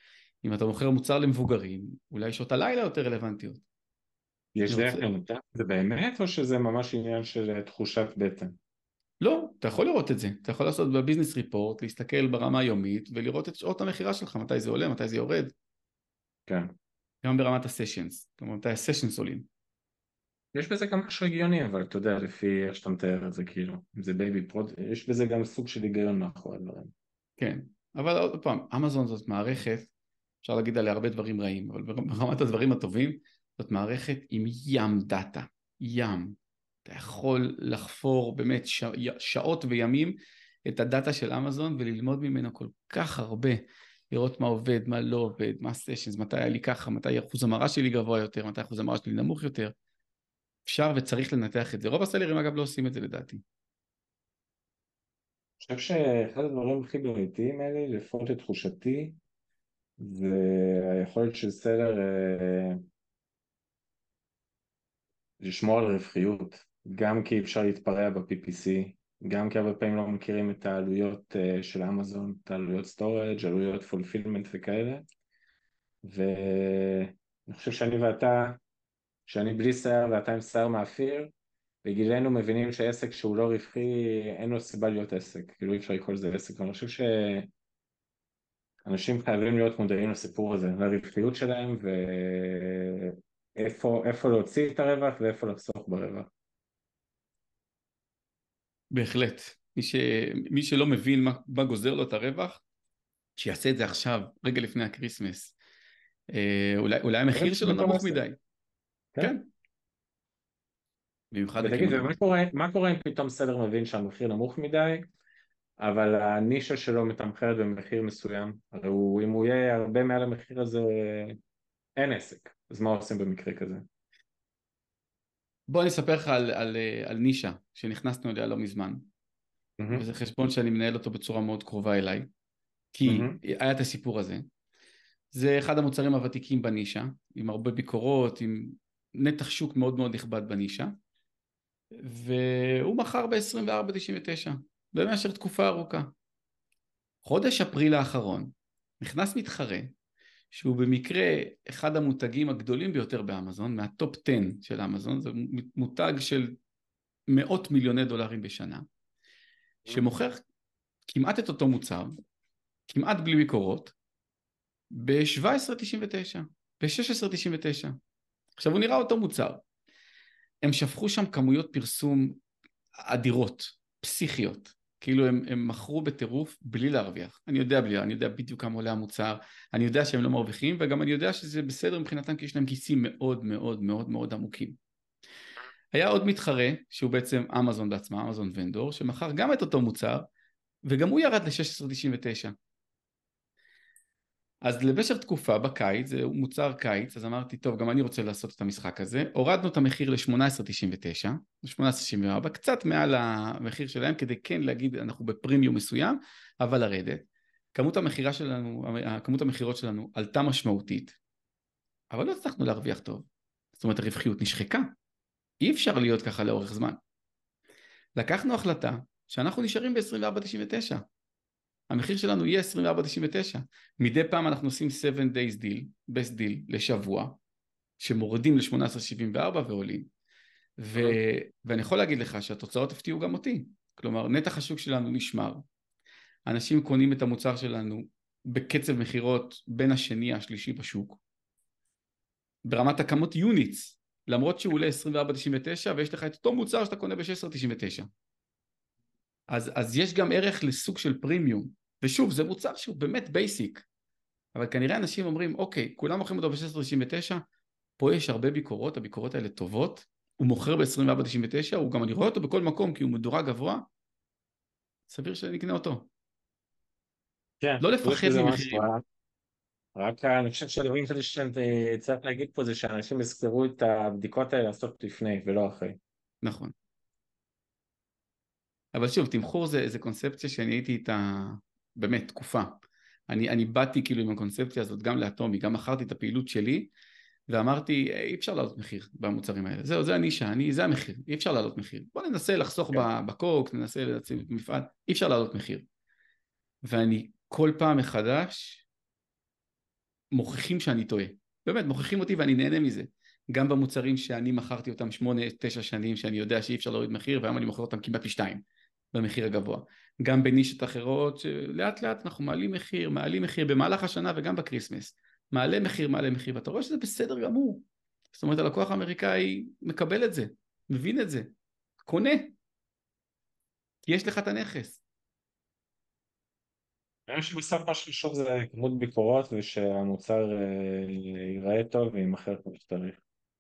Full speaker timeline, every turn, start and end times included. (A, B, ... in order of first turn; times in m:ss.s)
0:00.4-0:03.6 A
0:04.6-0:08.6 B
0:04.7-0:05.0 A
0:09.2-0:15.5 A
0:16.5-0:16.7 B
0:17.2-0:19.5 A
0:20.5-0:26.9 B
0:27.4-0:29.9 A
0:30.4-0:49.7 A
0:50.6-0:53.4 A
0:55.6-0:59.2 B
1:00.0-1:02.8 B
1:05.4-1:15.0 B
1:16.0-1:18.6 B
1:19.3-1:21.3 B
1:21.8-1:27.5 B
1:28.8-1:36.3 B
1:38.9-1:42.6 A
1:43.4-1:45.6 A
1:46.3-1:48.4 A
1:47.3-1:48.2 B
1:49.2-1:49.5 A
1:51.3-1:52.1 A
1:51.6-1:55.1 B
1:55.8-2:01.4 B
2:02.0-2:03.8 B
2:05.7-2:09.1 A
2:09.8-2:10.0 B
2:10.0-2:12.3 A
2:12.9-2:14.5 A
2:13.1-2:13.4 B
2:15.3-2:20.9 A
2:22.0-2:26.1 A
2:27.2-2:29.9 A
2:30.5-2:36.6 A
2:37.3-2:38.8 A
2:39.9-2:40.4 A
2:41.1-2:42.2 A
2:42.9-2:44.0 A
2:44.9-2:48.0 A
2:48.6-2:49.6 A
2:50.6-2:52.4 A
2:53.0-3:04.8 A
3:05.9-3:10.3 A
3:10.9-3:12.5 A
3:14.6-3:31.2 A
3:32.1-3:34.9 A
3:35.6-3:37.0 A
3:38.1-3:41.0 A
3:41.9-3:47.4 A
3:48.0-3:50.1 A
3:50.8-3:55.6 A
3:56.5-4:01.2 A
4:02.6-4:08.1 A
4:09.5-4:13.9 A
4:14.5-4:17.4 A
4:18.0-4:23.9 A
4:25.1-4:26.1 A
4:27.6-4:29.0 B
4:27.8-4:28.9 A
4:30.0-4:36.0 B
4:36.4-4:36.7 A
4:38.9-4:46.9 A
4:47.5-4:55.8 A
4:56.8-4:58.8 A
5:00.3-5:21.5 A
5:22.0-5:22.5 A
5:24.0-5:25.0 A
5:27.3-5:33.2 B